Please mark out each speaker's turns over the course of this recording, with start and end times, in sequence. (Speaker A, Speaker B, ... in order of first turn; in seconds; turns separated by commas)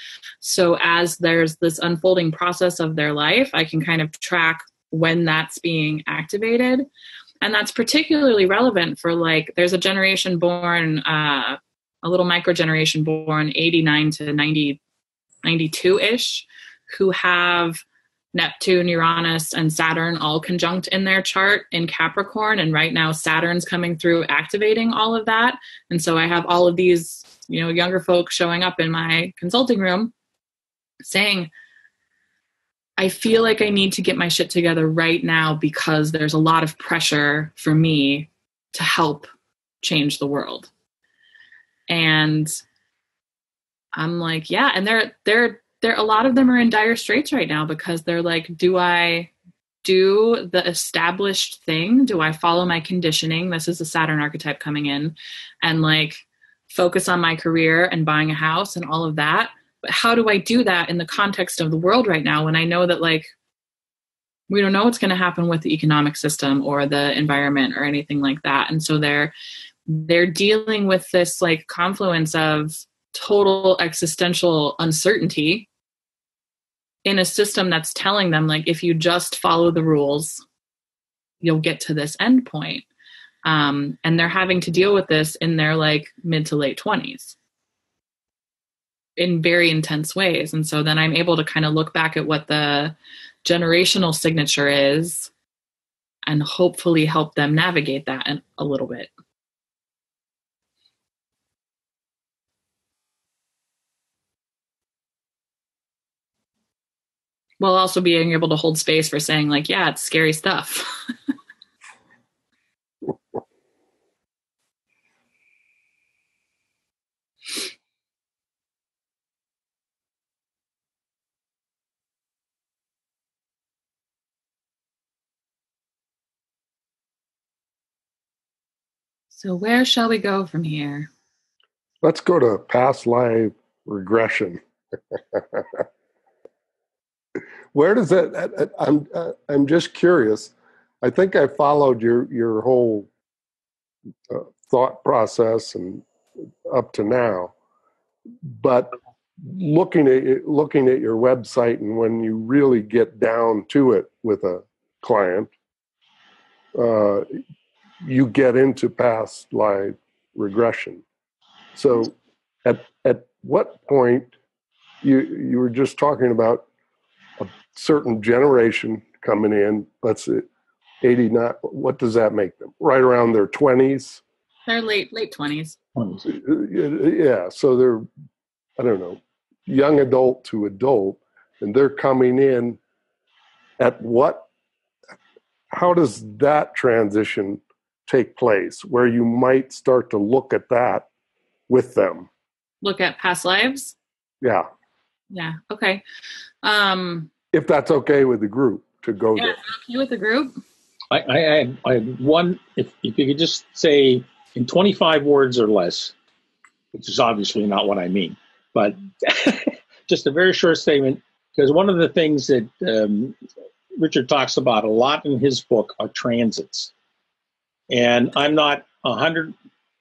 Speaker A: 0.4-6.9, Speaker A: 7.4-14.8, Speaker A: 15.4-17.8, Speaker A: 18.3-30.1, Speaker A: 31.0-31.5, Speaker A: 33.0-39.3, Speaker A: 39.8-40.7, Speaker A: 41.9-42.6, Speaker A: 43.9-49.3, Speaker A: 49.8-63.3, Speaker A: 64.5-69.3, Speaker A: 69.9-75.7, Speaker A: 77.0-80.4, Speaker A: 81.4-82.8, Speaker A: 83.4-87.3, Speaker A: 89.2-95.3, Speaker A: 96.2-99.1, Speaker A: 107.6-110.9, Speaker A: 129.3-131.1, Speaker B: 132.0-134.6, Speaker B: 135.3-135.8, Speaker B: 137.7-143.1, Speaker B: 144.3-146.0, Speaker B: 146.7-147.5, Speaker B: 148.5-155.5, Speaker B: 156.7-157.3, Speaker B: 158.0-161.0, Speaker B: 161.7-164.3, Speaker B: 165.0-166.7, Speaker B: 167.4-170.4, Speaker B: 171.0-174.2, Speaker A: 174.7-175.8, Speaker C: 176.0-176.2, Speaker B: 176.2-178.1, Speaker B: 178.8-182.8, Speaker B: 183.8-184.5, Speaker B: 185.7-191.1, Speaker B: 191.7-192.3, Speaker A: 192.8-193.9, Speaker B: 194.4-194.7, Speaker A: 195.3-196.0, Speaker A: 196.6-197.3, Speaker B: 197.5-199.6, Speaker A: 199.3-200.6, Speaker C: 201.1-206.1, Speaker C: 206.9-213.4, Speaker C: 213.9-216.9, Speaker C: 217.9-219.5